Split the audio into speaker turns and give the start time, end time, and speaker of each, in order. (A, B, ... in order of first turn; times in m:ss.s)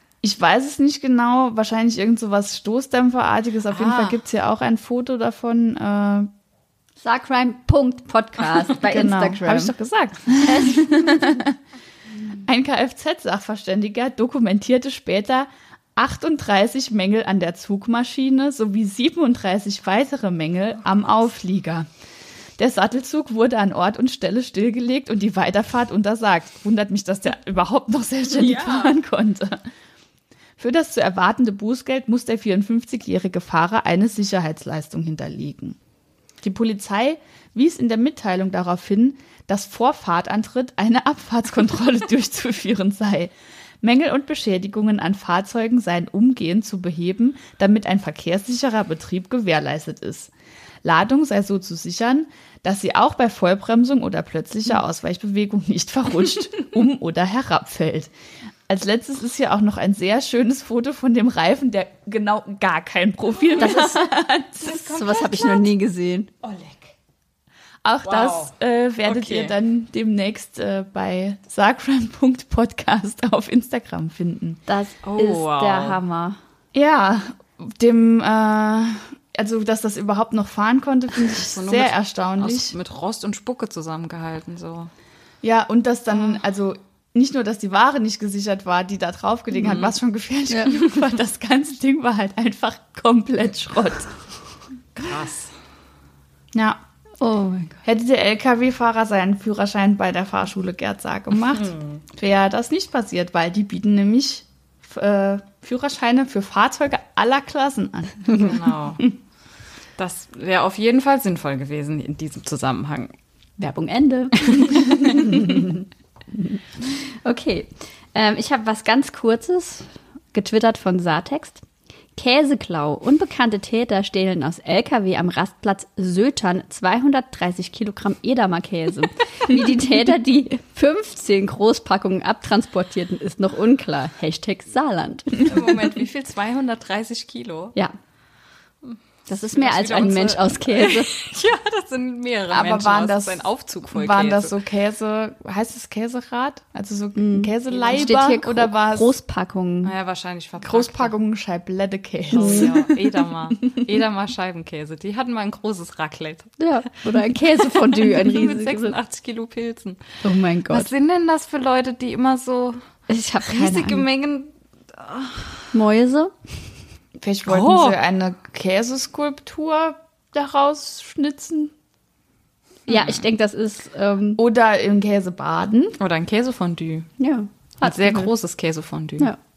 0:00.2-0:06.3 A
0:03.7-0:04.2 B
0:07.0-0:09.7 C
0:08.9-0:11.5 A
0:10.4-0:11.3 C
0:12.4-0:21.9 A
0:22.6-0:29.6 A
0:28.4-0:29.0 B
0:30.6-0:35.8 A
0:36.4-0:50.3 A
0:50.8-0:58.1 A
0:58.7-1:04.8 A
1:03.6-1:04.1 C
1:04.6-1:05.7 B
1:04.7-1:06.3 C
1:06.4-1:06.9 B
1:07.8-1:14.6 A
1:08.0-1:08.5 B
1:09.0-1:09.5 B
1:14.7-1:16.4 C
1:15.0-1:16.0 B
1:16.8-1:22.8 A
1:21.3-1:24.9 B
1:25.4-1:34.1 A
1:29.6-1:29.9 B
1:35.0-1:35.5 B
1:36.5-1:36.8 A
1:37.2-1:37.8 C
1:37.8-1:48.6 A
1:41.5-1:42.0 B
1:48.4-1:49.1 B
1:50.0-1:53.1 B
1:53.6-1:55.8 C
1:54.4-1:55.4 B
1:56.4-2:01.6 C
2:02.2-2:15.8 C
2:15.4-2:17.8 B
2:18.8-2:24.6 B
2:19.3-2:21.1 C
2:22.5-2:29.1 A
2:27.2-2:29.9 C
2:27.7-2:28.2 B
2:29.8-2:31.1 B
2:30.6-2:32.9 A
2:32.3-2:36.6 B
2:32.3-2:33.0 C
2:36.6-2:39.0 C
2:37.1-2:42.8 B
2:40.2-2:40.9 C
2:43.1-2:44.0 C
2:43.5-2:45.6 B
2:45.7-2:46.6 C
2:47.2-2:51.7 A
2:47.5-2:48.0 B
2:52.9-2:54.4 C
2:52.9-2:53.2 B
2:54.4-2:56.0 A
2:56.0-2:57.1 B
2:57.2-2:58.3 C
2:57.8-2:59.3 B